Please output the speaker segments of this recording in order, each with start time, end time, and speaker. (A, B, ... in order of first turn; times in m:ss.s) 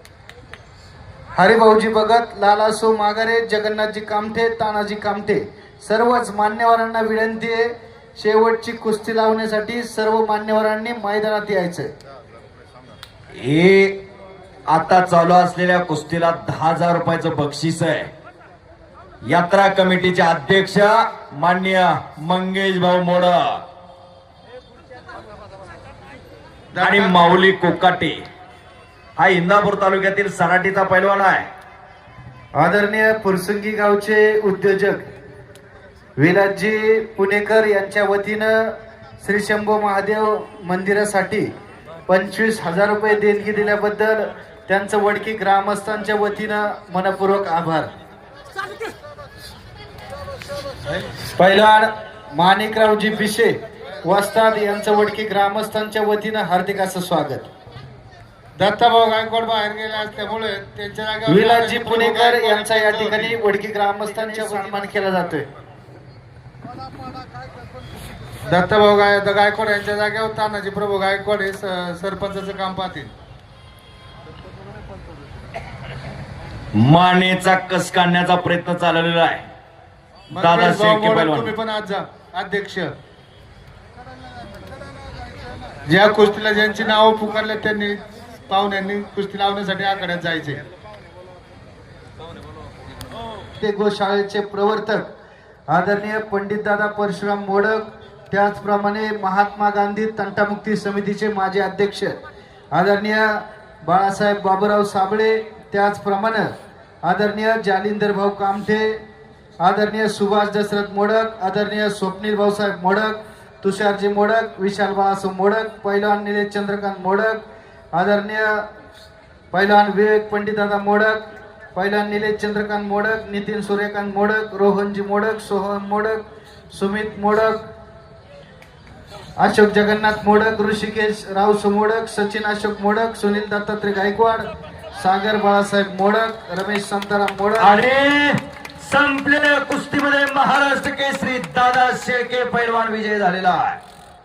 0:01.4-0:11.9 A
0:13.4-0:14.0 B
0:14.7-0:18.1 B
0:19.3-0:23.6 B
0:26.7-0:27.2 C
0:26.8-0:28.2 B
0:29.2-0:31.5 B
0:32.6-0:35.0 A
0:36.2-0:41.5 A
0:42.1-0:47.9 A
0:51.4-0:57.5 A
0:58.6-1:03.4 C
1:01.3-1:05.5 A
1:04.3-1:04.7 C
1:08.5-1:13.1 C
1:16.8-1:19.4 B
1:20.3-1:22.9 C
1:20.4-1:21.5 B
1:25.8-1:30.6 C
1:33.6-1:35.1 A
1:35.7-1:42.2 A
1:42.8-1:43.3 A
1:43.8-1:46.5 A
1:47.0-1:48.9 A
1:49.6-1:57.4 A
1:57.9-1:58.6 A
1:59.5-2:01.2 A
2:01.8-2:06.2 A
2:06.8-2:07.6 A
2:09.4-2:14.5 A
2:15.0-2:17.8 A
2:17.6-2:23.8 B